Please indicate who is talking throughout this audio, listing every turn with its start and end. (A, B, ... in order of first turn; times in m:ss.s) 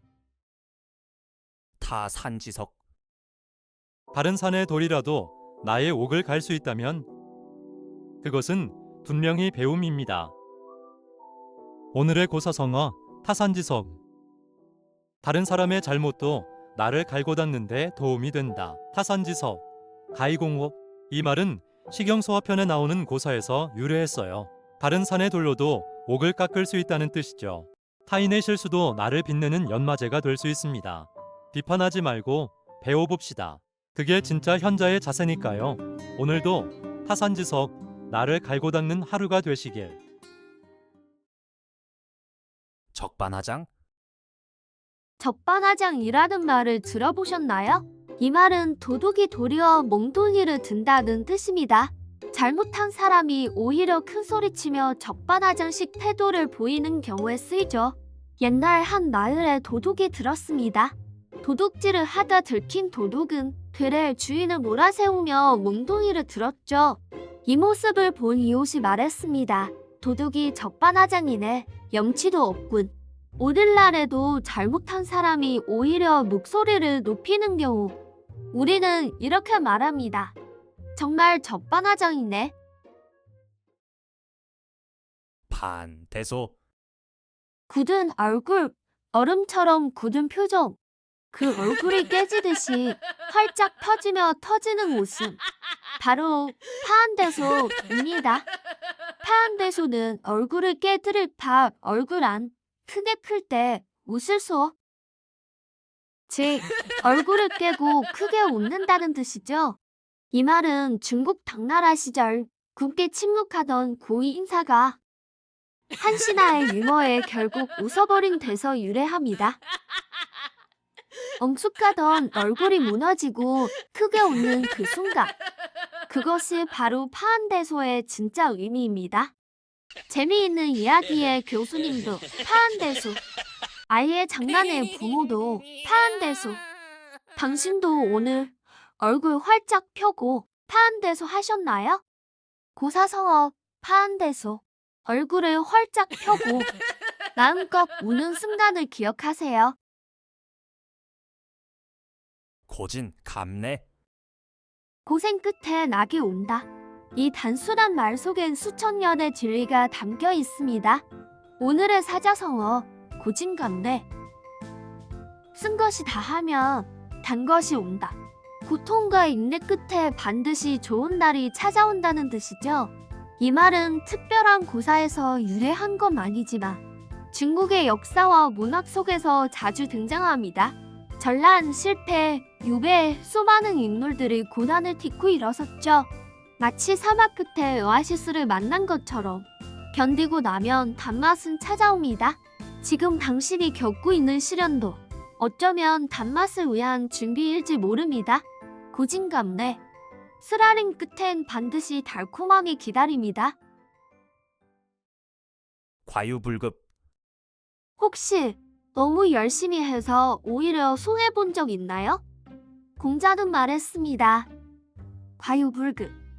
0:01.8-0:02.7 A
0:04.1-0:07.1 B
0:08.2-0:10.3 B
0:11.9-0:14.0 B
0:15.2-0:40.0 B
0:42.9-0:43.7 A
0:45.2-1:18.0 C
1:18.5-1:20.4 C
1:21.0-1:22.5 C
1:25.5-1:26.5 A
1:27.7-1:30.8 C
1:31.3-1:35.4 C
1:36.0-1:38.5 C
1:39.2-1:44.8 C
1:46.3-1:49.8 C
1:50.3-1:55.0 C
1:56.0-1:59.6 C
2:01.4-2:05.4 C
2:06.1-2:09.3 C
2:10.1-2:13.2 C
2:13.9-2:16.6 C
2:17.4-2:22.0 C
2:22.8-2:26.7 C
2:27.4-2:29.8 C
2:32.7-2:33.8 A
2:35.0-2:41.0 C
2:41.6-2:44.1 C
2:45.5-3:19.8 C
3:20.4-3:23.6 C
3:26.1-3:26.8 A
3:28.0-3:32.2 C
3:33.0-3:34.5 C
3:35.4-3:36.2 C